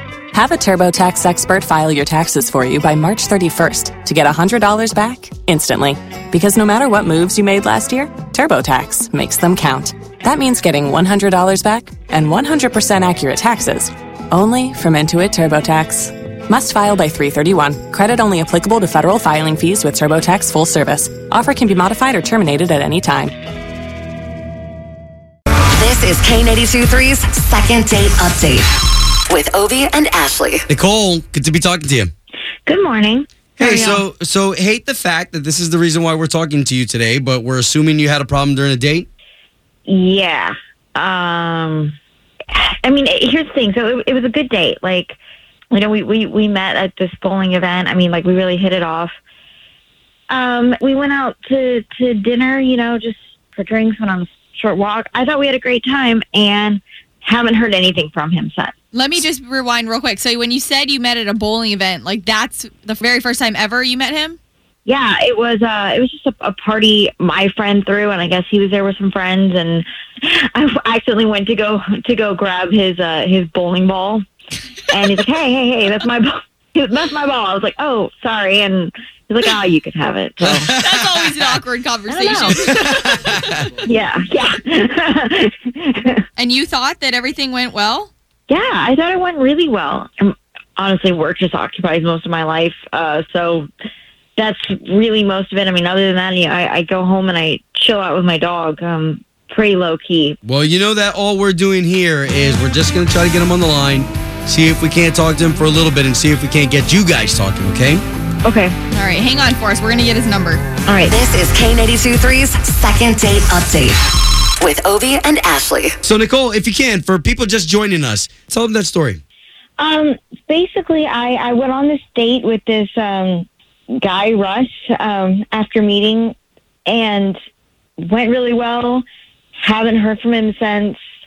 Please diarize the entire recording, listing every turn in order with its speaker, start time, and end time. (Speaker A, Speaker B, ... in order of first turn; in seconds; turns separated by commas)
Speaker A: 0.3-23.3, Speaker B: 25.8-28.7, Speaker B: 29.3-30.6, Speaker C: 30.7-32.1, Speaker D: 32.6-34.0, Speaker C: 33.6-39.1, Speaker D: 39.9-41.9, Speaker D: 42.5-45.2, Speaker D: 45.7-49.1, Speaker D: 50.3-58.7, Speaker E: 58.9-64.4, Speaker D: 64.8-74.2, Speaker D: 74.9-80.7, Speaker C: 80.4-80.7, Speaker E: 80.7-82.8, Speaker D: 82.1-82.5, Speaker C: 82.7-83.6, Speaker D: 83.8-86.2, Speaker E: 86.3-88.1, Speaker D: 88.5-93.7, Speaker D: 94.4-100.4, Speaker C: 100.4-108.0, Speaker D: 108.4-108.8, Speaker E: 108.9-110.6, Speaker D: 110.9-111.2, Speaker B: 111.0-114.0, Speaker B: 114.6-116.0, Speaker C: 116.0-119.2, Speaker D: 119.8-123.5, Speaker D: 124.0-126.3, Speaker D: 126.9-127.4, Speaker D: 128.0-129.0, Speaker D: 129.6-131.0